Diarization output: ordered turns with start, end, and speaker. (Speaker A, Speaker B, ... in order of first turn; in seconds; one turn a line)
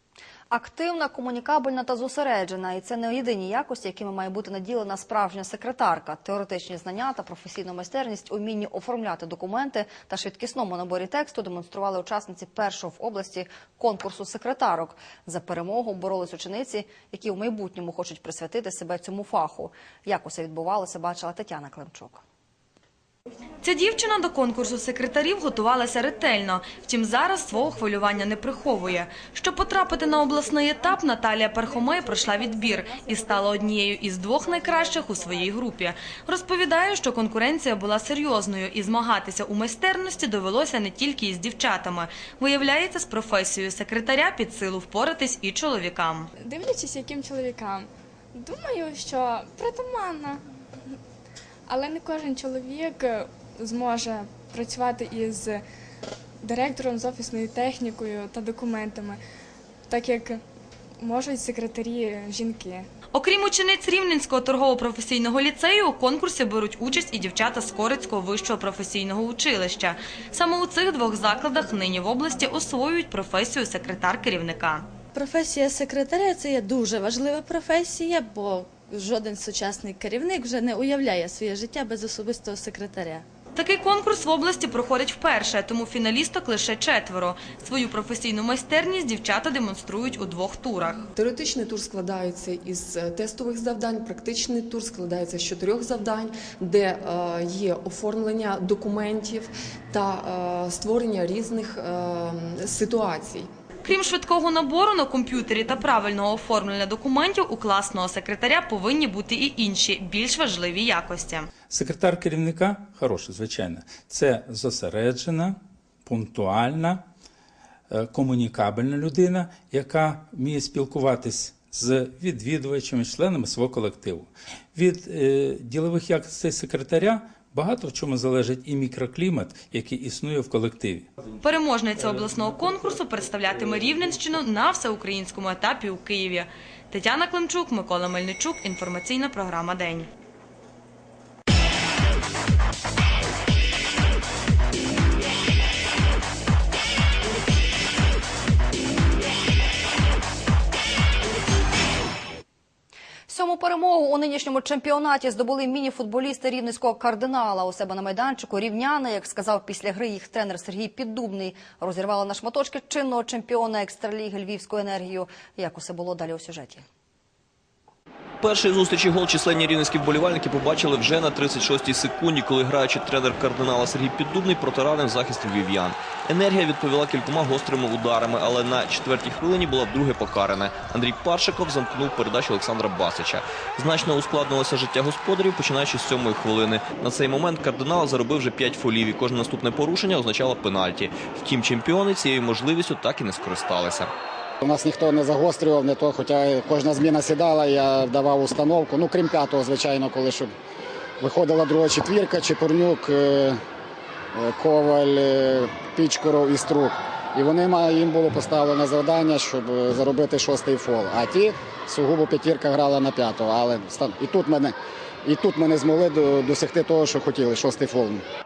Speaker A: 0.5-22.2
Speaker B: 23.6-46.3
Speaker C: 46.4-50.4
Speaker C: 51.7-55.6
Speaker C: 56.4-59.2
Speaker C: 59.9-60.4
Speaker C: 61.0-62.9
Speaker B: 63.1-74.9
Speaker D: 75.2-83.2
Speaker B: 83.5-91.1
Speaker E: 91.2-103.5
Speaker B: 103.8-111.5
Speaker F: 111.7-117.0
Speaker F: 117.9-131.1
Speaker B: 131.4-140.1
Speaker A: 153.3-166.8
Speaker G: 168.4-194.1
Speaker H: 194.6-200.5
Speaker H: 201.2-203.6
Speaker H: 204.3-218.2